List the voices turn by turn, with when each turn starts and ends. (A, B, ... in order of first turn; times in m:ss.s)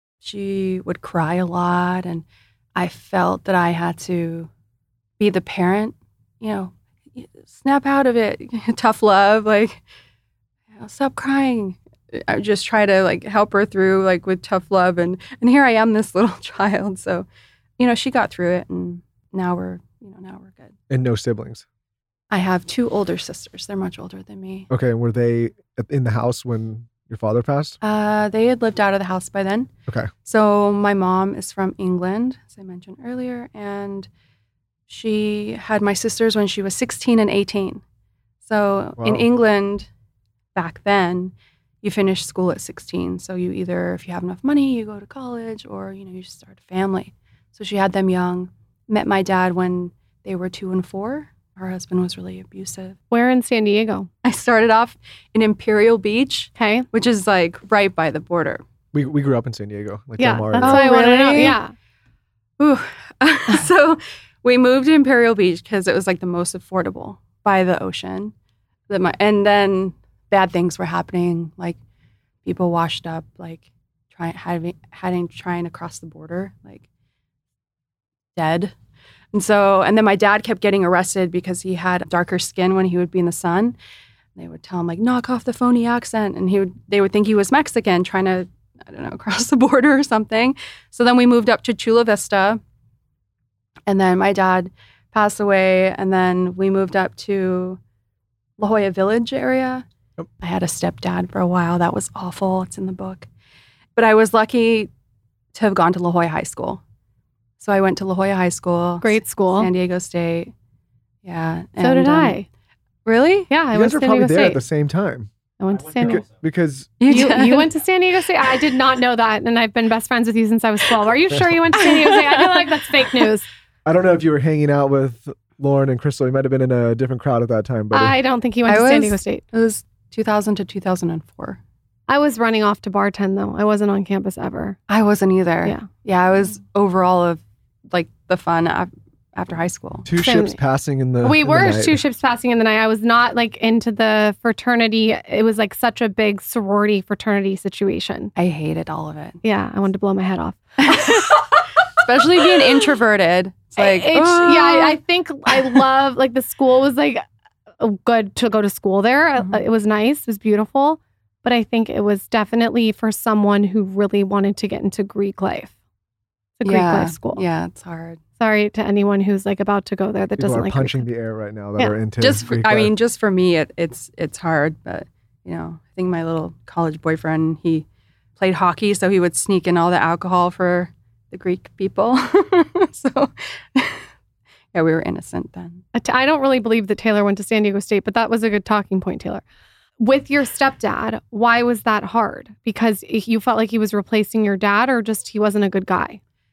0:00.2-0:04.5 A
0:05.2-0:09.8 A
0:10.7-0:17.3 A
0:17.8-0:20.7 A
0:20.9-0:21.6 B
0:22.3-0:24.7 A
0:24.7-0:27.8 B
0:27.8-0:29.7 A
0:30.2-0:34.1 A
0:34.9-0:37.8 A
0:38.4-0:39.9 A
0:39.0-0:39.2 B
0:40.5-0:53.0 A
0:53.1-0:54.1 C
0:54.2-0:58.6 A
0:56.6-0:56.9 C
0:58.9-1:00.8 B
1:00.2-1:01.7 C
1:00.6-1:01.6 A
1:02.6-1:08.3 A
1:08.9-1:11.8 A
1:12.4-1:16.8 A
1:18.4-1:18.7 A
1:19.3-1:23.8 A
1:24.4-1:32.6 A
1:33.9-1:37.8 A
1:38.6-1:39.8 A
1:40.4-1:43.3 A
1:44.0-1:44.9 A
1:45.5-1:46.8 A
1:47.6-1:50.5 A
1:49.0-1:49.7 C
1:51.2-1:52.4 A
1:51.8-1:52.5 C
1:53.0-1:53.5 A
1:53.5-1:54.6 C
1:53.7-1:55.3 B
1:55.6-1:56.2 C
1:56.0-1:56.9 B
1:57.0-1:57.7 A
1:57.1-2:03.5 C
2:01.8-2:03.3 A
2:03.8-2:08.2 B
2:07.9-2:09.4 C
2:08.7-2:11.6 A
2:12.1-2:14.8 C
2:14.9-2:20.1 A
2:20.0-2:22.0 B
2:20.2-2:20.6 C
2:21.2-2:28.3 C
2:28.4-2:29.4 A
2:29.4-2:31.4 C
2:30.8-2:35.0 A
2:33.8-2:37.2 C
2:35.5-2:35.8 A
2:37.8-2:45.7 C
2:46.6-2:47.4 C
2:46.6-2:48.2 A
2:48.4-2:51.1 C
2:50.4-2:52.9 B
2:52.2-2:57.8 A
2:58.4-3:04.0 A
3:04.7-3:05.8 A
3:05.9-3:09.4 C
3:10.0-3:16.2 C